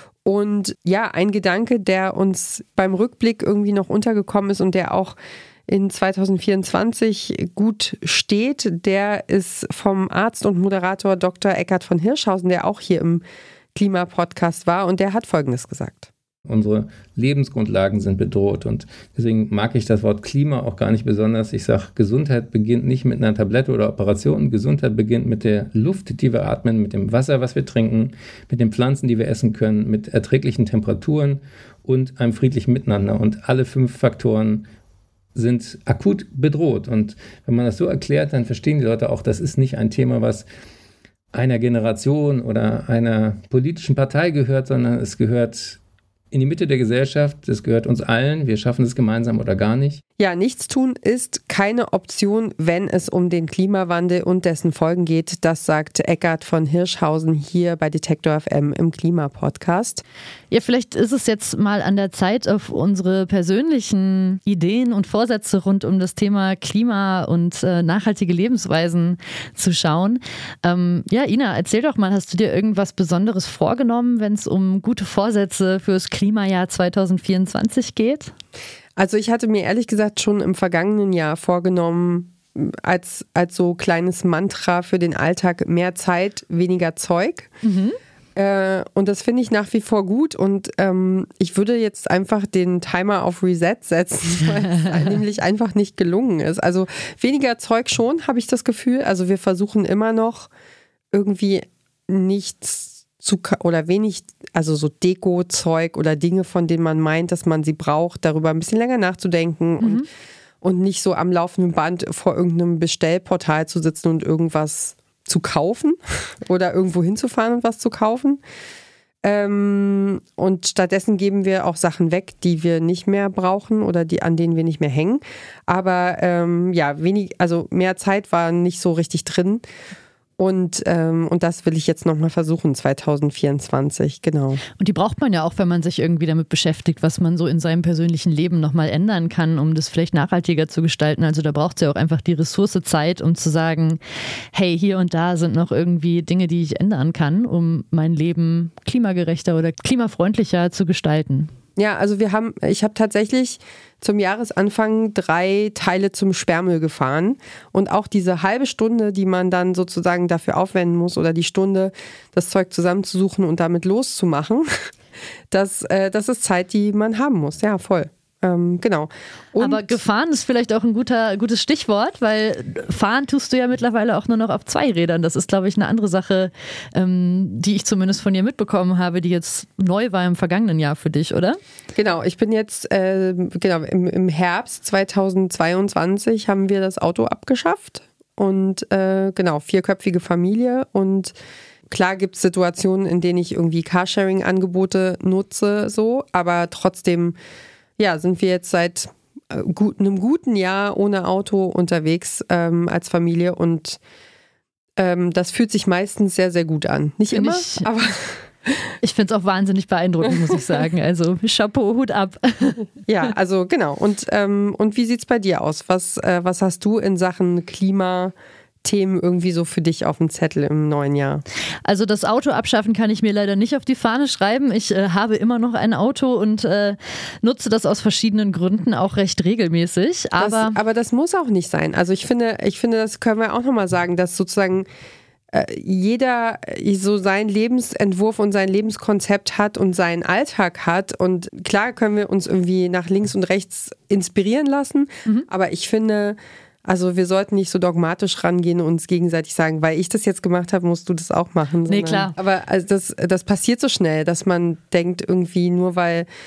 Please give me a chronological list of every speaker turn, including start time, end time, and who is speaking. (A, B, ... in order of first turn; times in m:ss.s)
0:00.2-0:05.2 A
0:05.7-0:13.2 A
0:13.8-0:16.1 A
0:16.5-0:34.7 B
0:35.4-0:40.4 B
0:41.3-0:45.8 B
0:46.3-0:50.0 B
0:50.2-1:00.0 A
1:00.5-1:18.3 C
1:19.0-1:27.5 A
1:27.6-1:28.0 C
1:28.4-1:40.5 A
1:41.1-1:50.0 A
1:49.8-1:50.1 C
1:50.6-1:58.4 A
1:59.2-2:09.6 A
2:10.4-2:14.6 A
2:14.8-2:24.0 C
2:24.5-2:31.5 C
2:31.8-2:44.9 A
2:45.5-2:50.0 A
2:49.6-3:01.6 C
3:02.0-3:11.4 A
3:11.9-3:17.4 A
3:18.0-3:24.0 A
3:25.0-3:28.9 A
3:27.3-3:27.9 C
3:29.0-3:32.9 C
3:33.1-3:41.4 A
3:41.8-3:50.8 C
3:50.4-3:54.9 A
3:55.5-4:16.3 A
4:11.9-4:12.4 C